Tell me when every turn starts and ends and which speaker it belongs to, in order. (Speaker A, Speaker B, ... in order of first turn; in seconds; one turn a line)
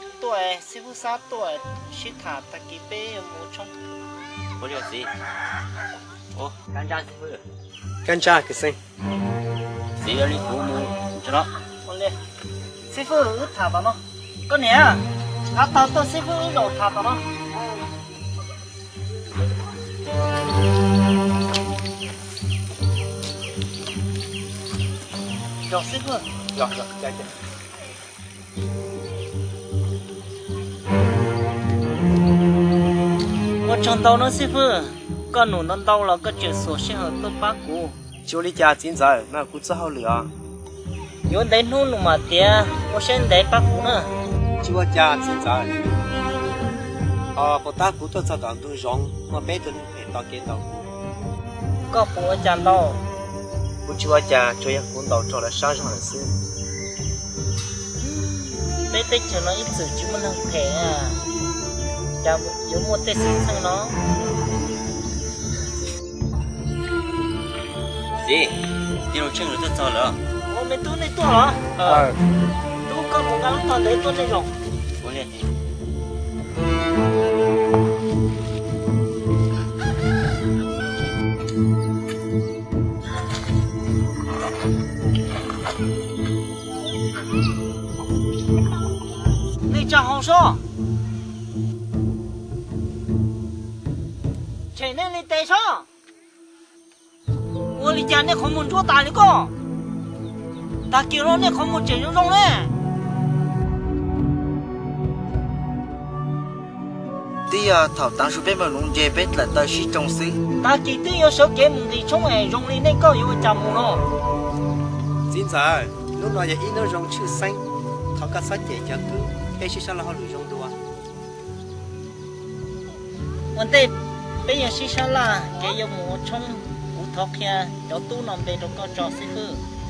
Speaker A: 0.2-3.7
Speaker B: 4.6-5.1
Speaker B: 6.3-7.4
Speaker C: 8.1-8.8
Speaker B: 10.0-11.5
Speaker A: 11.8-12.2
Speaker A: 12.9-17.2
Speaker A: 25.7-26.2
Speaker C: 26.5-27.3
Speaker A: 33.6-38.0
Speaker C: 38.2-40.3
Speaker A: 41.3-44.1
Speaker C: 44.6-45.7
Speaker C: 47.3-50.9
Speaker A: 51.9-53.0
Speaker C: 53.8-56.3
Speaker A: 58.0-61.2
Speaker A: 62.2-64.0
Speaker B: 68.2-70.2
Speaker A: 70.5-72.0
Speaker B: 71.8-72.0
Speaker A: 72.8-74.5
Speaker B: 75.0-75.5
Speaker A: 89.7-90.6
Speaker A: 94.7-95.9
Speaker A: 97.7-99.5
Speaker A: 100.9-102.7
Speaker D: 107.5-110.4
Speaker A: 110.6-114.0
Speaker C: 115.3-117.6
Speaker C: 118.1-120.7
Speaker A: 123.5-129.6